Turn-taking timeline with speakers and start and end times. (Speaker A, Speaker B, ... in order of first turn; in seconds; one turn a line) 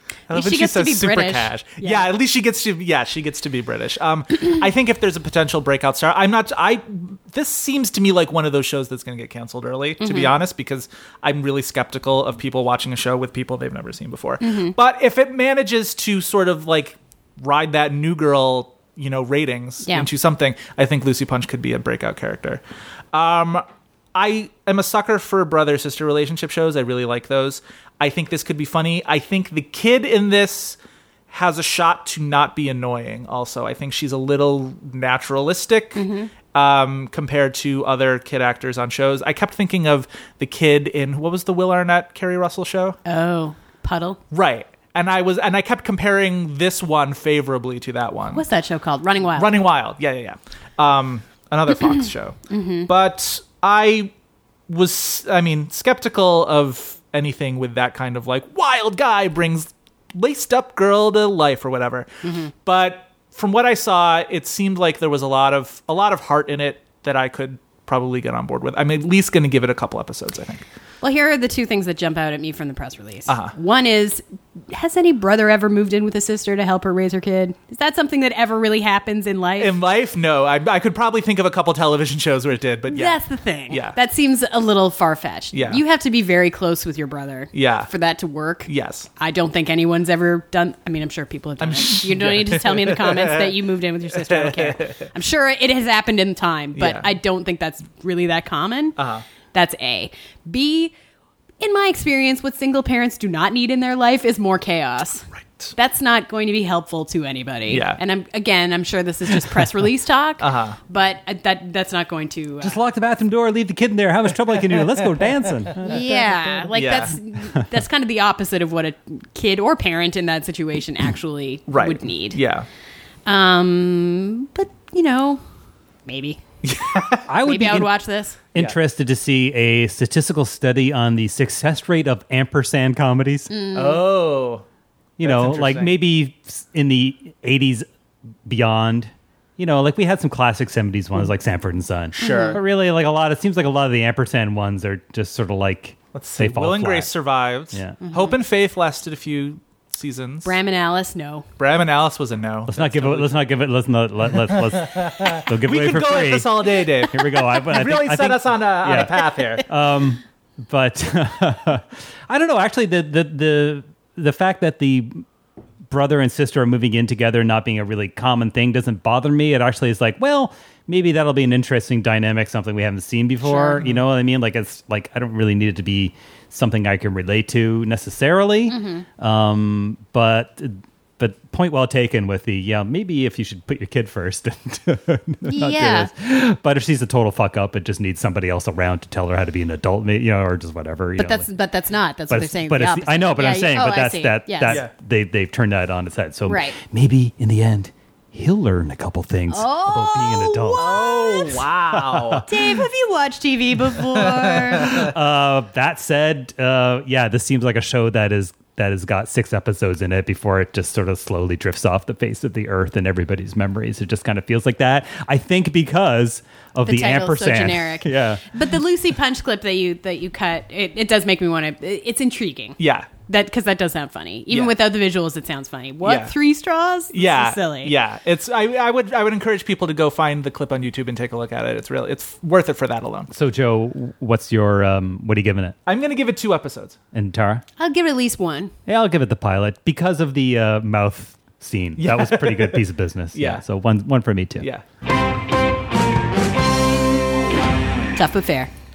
Speaker A: 0.3-30.8
Speaker B: 0.3-2.1
Speaker B: 10.0-10.3
Speaker B: 14.4-14.8
Speaker B: 19.8-20.1
Speaker A: 31.3-36.0
Speaker B: 36.0-36.3
Speaker A: 36.5-43.0
Speaker B: 43.0-44.2
Speaker A: 44.3-48.4
Speaker B: 48.3-49.6
Speaker A: 49.3-54.1
Speaker B: 52.5-52.9
Speaker A: 54.7-62.1
Speaker B: 62.2-62.5
Speaker A: 62.6-70.7
Speaker B: 71.0-79.8
Speaker A: 73.3-73.5
Speaker A: 79.6-84.0
Speaker B: 82.9-99.0
Speaker A: 85.5-85.8
Speaker A: 87.5-87.9
Speaker A: 88.7-89.1
Speaker A: 91.6-93.6
Speaker A: 94.2-95.0
Speaker A: 96.8-97.1
Speaker A: 99.0-99.2
Speaker B: 99.5-100.9
Speaker B: 101.6-112.8
Speaker A: 107.7-108.0
Speaker A: 110.4-110.8
Speaker C: 112.6-116.0
Speaker B: 115.8-122.4
Speaker A: 116.7-117.2
Speaker A: 121.7-122.7
Speaker B: 123.3-125.4
Speaker B: 126.1-126.4
Speaker A: 126.6-127.3
Speaker C: 127.3-127.9
Speaker B: 127.4-128.4
Speaker C: 128.5-133.5
Speaker B: 133.5-134.1
Speaker A: 133.7-134.7
Speaker C: 135.2-137.9
Speaker A: 135.2-136.0
Speaker C: 138.5-147.1
Speaker A: 142.2-142.6
Speaker B: 142.2-142.6
Speaker A: 146.1-150.5
Speaker C: 147.7-148.0
Speaker B: 148.1-148.3
Speaker B: 150.4-151.5
Speaker A: 151.6-153.4
Speaker C: 152.7-165.2
Speaker A: 154.3-159.7
Speaker C: 165.9-191.5
Speaker B: 173.4-173.8
Speaker B: 178.7-179.1
Speaker B: 185.4-186.1
Speaker B: 191.2-194.8
Speaker C: 192.3-200.9
Speaker B: 196.5-196.8
Speaker B: 199.5-201.6
Speaker A: 200.8-202.5
Speaker C: 202.1-202.4
Speaker B: 202.5-205.0
Speaker C: 204.7-218.5
Speaker B: 216.9-227.9
Speaker A: 222.8-223.1
Speaker A: 226.0-226.3
Speaker A: 227.1-233.3
Speaker C: 233.3-235.8
Speaker A: 235.9-237.0
Speaker C: 237.1-237.6
Speaker B: 237.8-238.7
Speaker C: 238.9-244.7
Speaker A: 242.0-243.6
Speaker B: 248.2-248.7